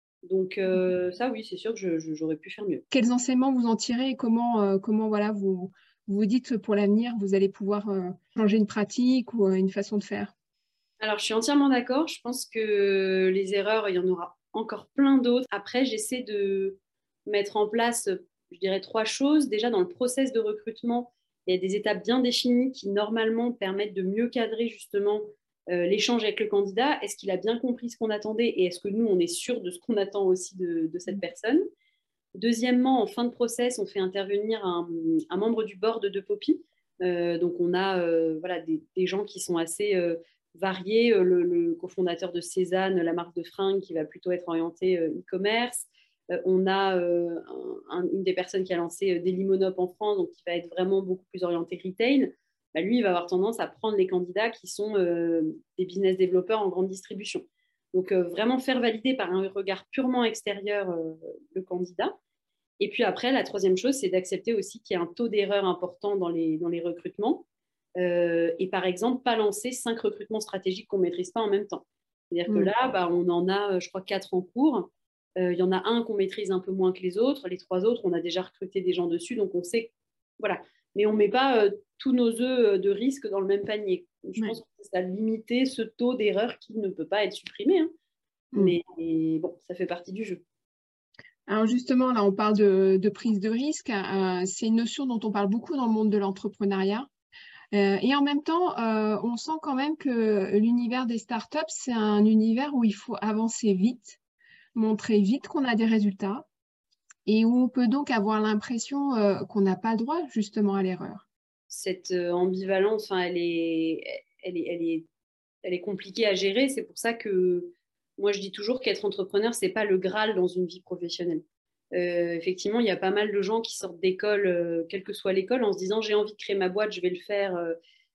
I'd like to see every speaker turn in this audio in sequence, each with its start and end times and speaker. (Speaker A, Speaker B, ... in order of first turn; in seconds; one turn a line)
Speaker A: 0.2-2.8
Speaker B: 2.9-10.3
Speaker A: 11.0-31.6
Speaker A: 32.4-62.1
Speaker A: 62.8-67.4
Speaker A: 68.0-74.9
Speaker B: 72.5-72.7
Speaker A: 75.4-87.9
Speaker A: 88.5-90.4
Speaker B: 91.5-97.1
Speaker B: 97.7-104.2
Speaker B: 104.8-106.5
Speaker B: 107.2-111.2
Speaker A: 111.7-115.1
Speaker A: 115.6-121.4
Speaker A: 121.9-127.8